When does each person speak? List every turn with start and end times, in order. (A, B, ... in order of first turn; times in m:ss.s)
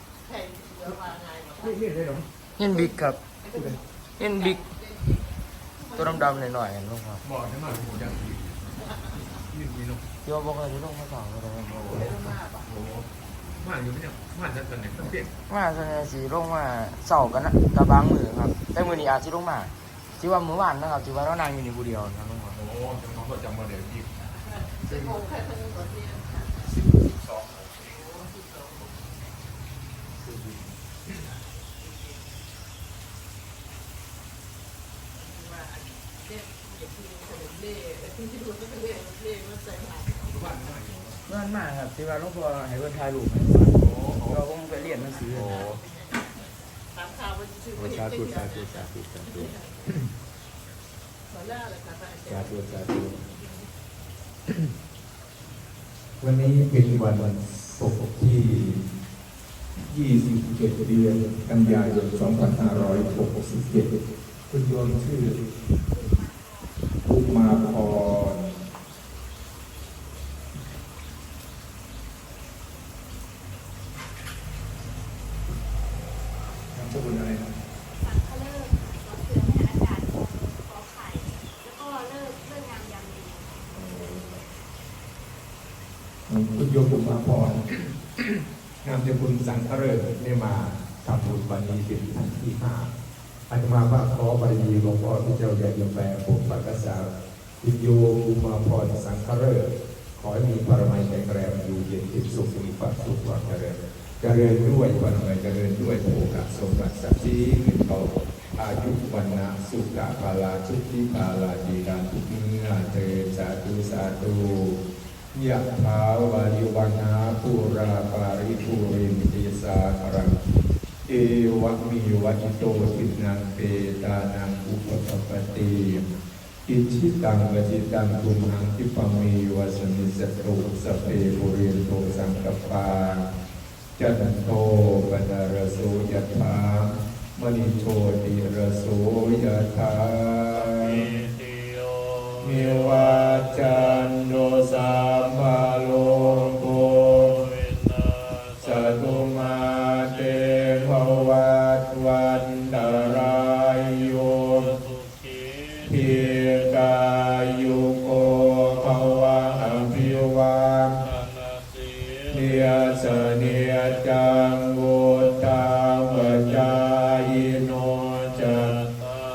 0:00.2-0:01.8 A
0:01.6-0:02.3 B
0:02.6-0:03.2 C
0:03.4-0:03.8 A
0:04.2-0:04.7 C
0:04.4-0:06.4 A
0:06.0-0:07.2 C
0:07.2-0:08.7 B
0:09.3-0:10.0 B
0:10.2-0:12.3 C
0:11.7-0:13.1 B
0:11.9-0:12.7 A
0:13.6-0:15.3 B
0:15.5-0:22.6 C
0:22.5-0:24.2 B
0:24.6-0:26.7 A
0:24.8-0:25.2 B
0:26.6-0:28.1 B
0:27.9-0:29.0 A
0:30.2-0:31.1 B
0:31.2-0:32.2 A
0:35.2-0:40.6 A
0:40.2-0:41.2 B
0:41.3-0:45.7 C
0:43.7-0:44.4 B
0:44.7-0:49.9 A
0:45.3-0:45.7 D
0:47.8-0:50.0 D
0:51.3-0:52.5 A
0:52.3-0:53.2 D
0:53.2-0:53.6 A
0:56.2-0:58.8 D
0:59.8-1:04.0 D
1:04.5-1:05.4 D
1:05.8-1:06.9 E
1:07.0-1:08.6 D
1:16.7-1:17.5 D
1:17.9-1:23.6 E
1:23.7-1:24.4 D
1:26.3-1:27.7 D
1:28.8-1:32.9 D
1:33.5-1:37.1 D
1:37.6-1:54.8 D
1:55.3-2:00.4 D
2:01.1-2:06.1 D
2:06.7-2:13.3 D
2:14.0-2:21.1 D
2:22.4-2:27.5 D
2:28.6-2:34.8 D
2:35.8-2:41.1 D
2:42.3-2:48.8 D